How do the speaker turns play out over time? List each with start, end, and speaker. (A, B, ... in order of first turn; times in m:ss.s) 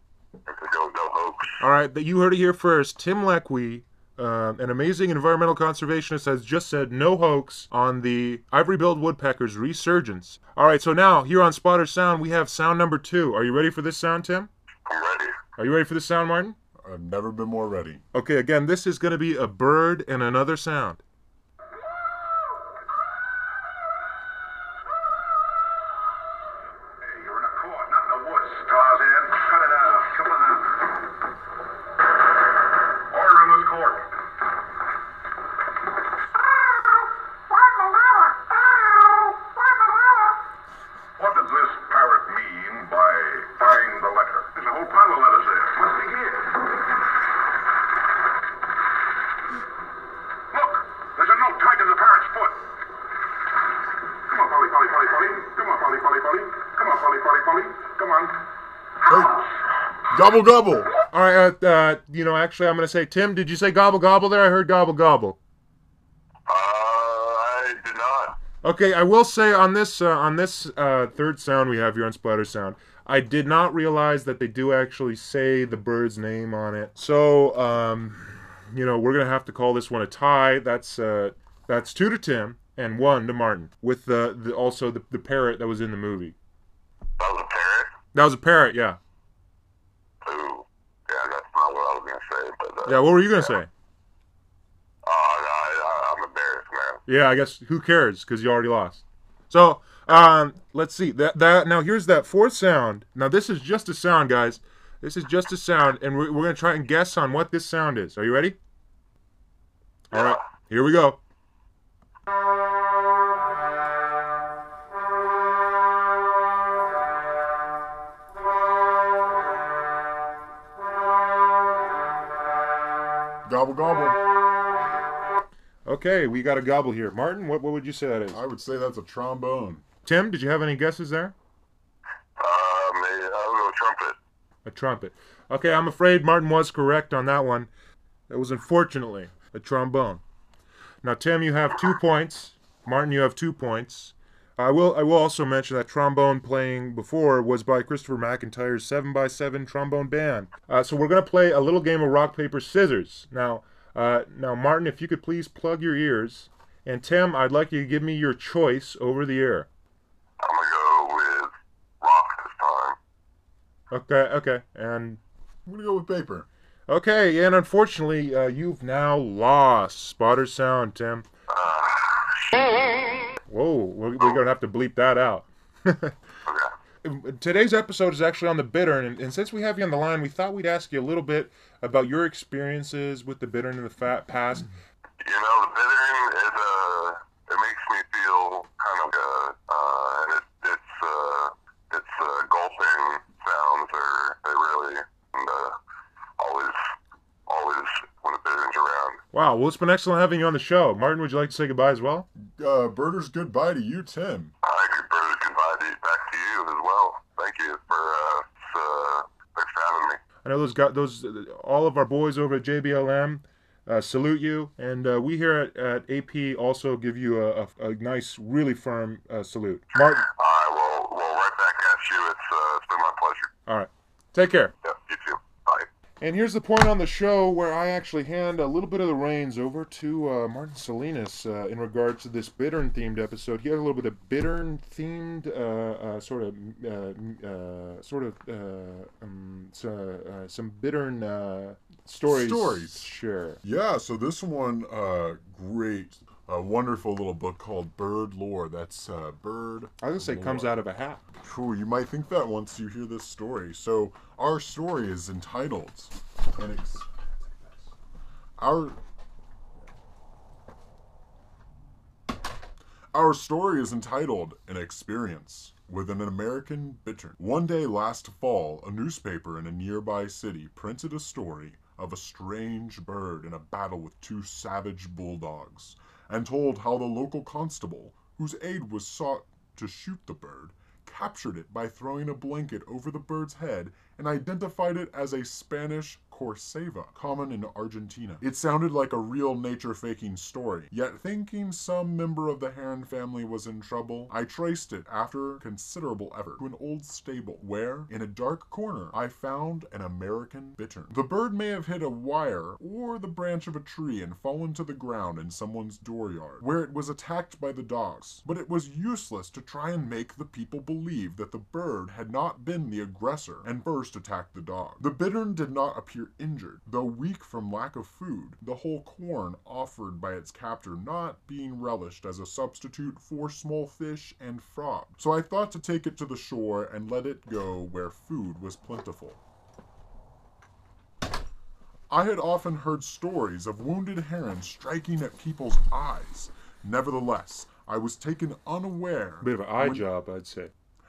0:00.4-0:01.6 A
0:01.6-0:14.5 B
0:14.8-0:15.4 A
0:15.6-0:16.6 B
0:16.8-0:18.0 C
0:18.1-0:21.0 B
0:27.0-0:30.9 D
0:33.1-0:34.1 D
0:37.8-0:38.5 D
0:39.1-0:39.4 D
0:41.2-0:46.6 D
0:50.5-0:52.6 D
0:54.2-0:58.5 D
0:59.0-0:59.4 C
1:00.1-1:00.9 C
1:01.1-1:05.4 B
1:06.5-1:08.4 A
1:08.6-1:26.4 B
1:27.2-1:27.9 A
1:28.1-1:29.0 B
1:30.2-1:33.1 A
1:32.8-1:33.7 B
1:35.0-1:37.0 A
1:37.1-1:48.6 B
1:50.1-1:51.2 B
1:50.1-1:50.4 A
2:03.4-2:04.2 C
2:05.8-2:08.4 B
2:08.3-2:09.8 C
2:10.0-2:11.3 B
2:12.4-2:14.2 A
2:14.6-2:17.7 B
2:18.3-2:20.2 B
2:21.0-2:39.7 B
2:40.4-2:43.0 A
2:43.9-2:45.2 B
2:45.6-2:46.5 C
2:46.9-2:51.2 B
2:51.5-2:52.9 A
2:53.5-2:56.2 B
2:56.4-2:56.7 A
2:57.0-3:04.7 B
3:05.2-3:15.8 A
3:16.4-3:16.9 A
3:17.5-3:19.2 A
3:19.3-3:22.3 B
3:22.4-3:24.5 C
3:24.6-3:30.2 A
3:30.4-3:40.3 B
3:40.2-3:43.5 A
3:43.6-3:44.7 B
3:44.8-3:45.9 A
3:46.2-4:03.6 B
4:02.2-4:03.1 C
4:03.6-4:10.8 C
4:10.0-4:11.2 B
4:11.4-4:17.1 C
4:18.6-4:19.0 C
4:23.1-5:29.4 C
5:32.1-5:40.0 C
5:39.4-5:40.7 B